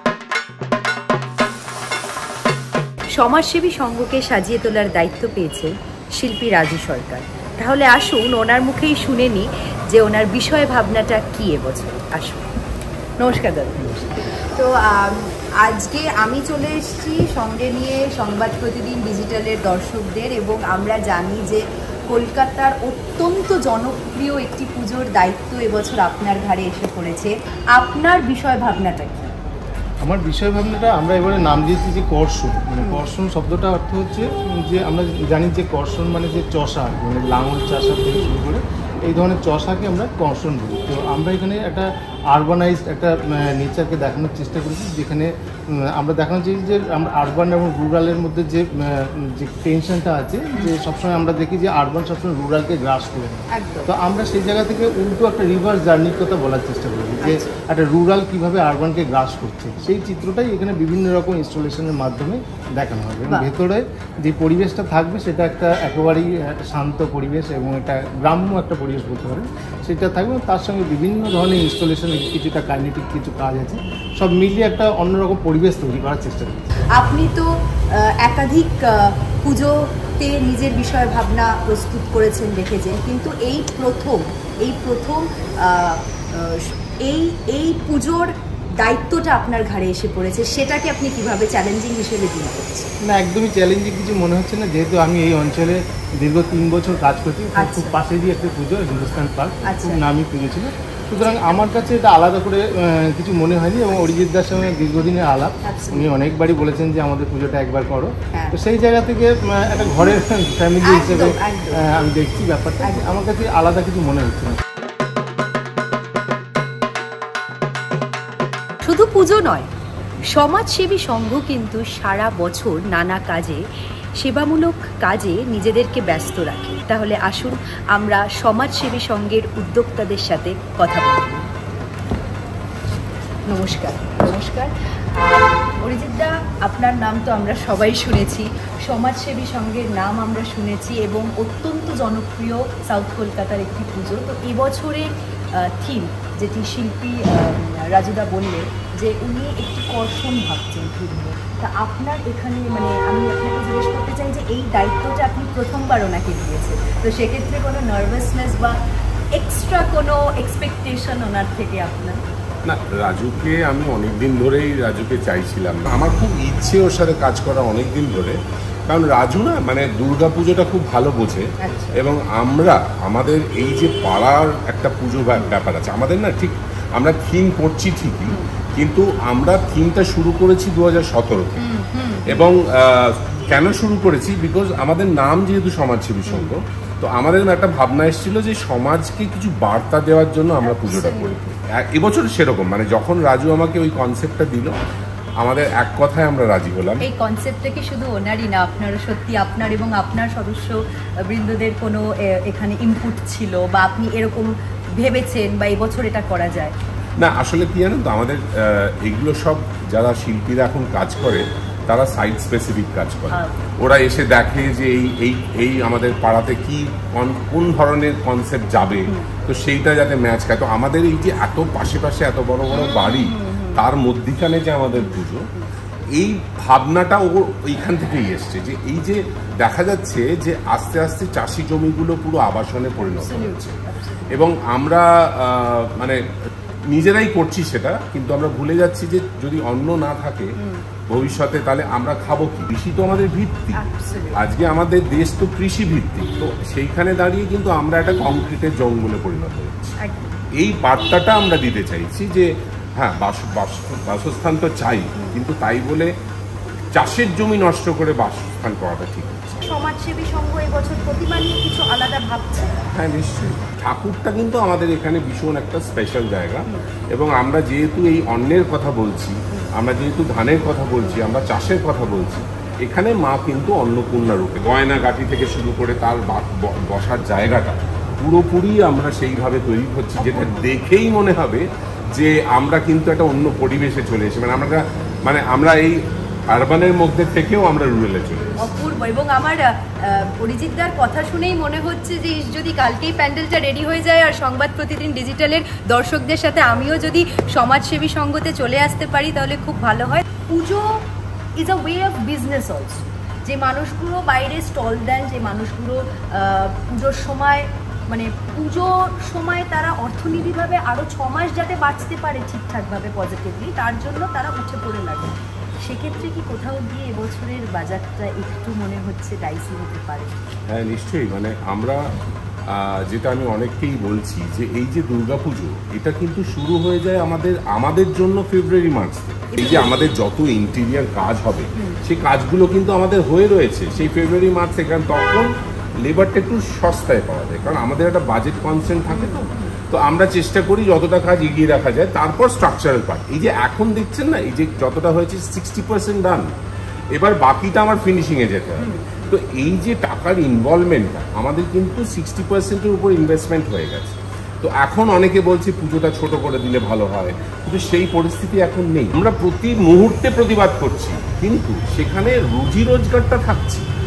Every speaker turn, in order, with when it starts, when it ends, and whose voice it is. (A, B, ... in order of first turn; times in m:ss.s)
0:03.1-0:12.4 A
0:13.2-0:29.3 A
0:30.0-1:16.7 B
0:53.5-0:53.9 A
0:57.2-0:57.5 A
1:17.0-1:32.9 A
1:33.0-1:54.6 B
1:37.6-1:38.0 A
1:39.6-1:40.0 A
1:41.2-1:41.6 A
1:45.6-1:46.1 A
1:49.8-1:50.2 A
1:50.8-1:51.8 A
1:52.8-1:53.1 A
1:58.8-1:59.7 A
2:00.3-2:03.6 A
2:04.2-2:11.4 A
2:13.5-2:38.7 A
2:39.3-2:42.2 A
2:42.6-2:48.4 C
2:48.9-2:51.4 C
2:51.6-2:52.0 A
2:52.0-3:01.6 C
3:01.6-3:02.5 A
3:02.3-3:14.8 C
3:06.2-3:06.5 A
3:10.6-3:11.5 A
3:15.4-3:17.0 C
3:17.0-3:26.7 A
3:27.2-3:45.4 C
3:33.3-3:33.7 A
3:42.7-3:43.8 A
3:44.9-3:45.7 A
3:46.2-3:53.7 C
3:53.0-3:54.5 A
3:54.3-3:56.2 C
3:56.9-4:00.5 C
4:01.1-4:03.8 C
4:03.8-4:04.4 A
4:04.4-4:10.0 C
4:10.0-4:10.4 A
4:10.6-4:12.5 C
4:13.0-4:16.1 C
4:16.9-4:19.6 C
4:19.6-4:22.8 A
4:22.9-4:46.0 C
4:46.5-4:48.6 C
4:48.6-5:00.8 A
5:01.6-5:20.3 A
5:20.7-5:22.0 C
5:22.7-5:35.5 C
5:29.5-5:30.0 A
5:36.0-5:46.5 C
5:39.1-5:39.7 A
5:47.1-6:03.8 C
5:48.8-5:49.2 A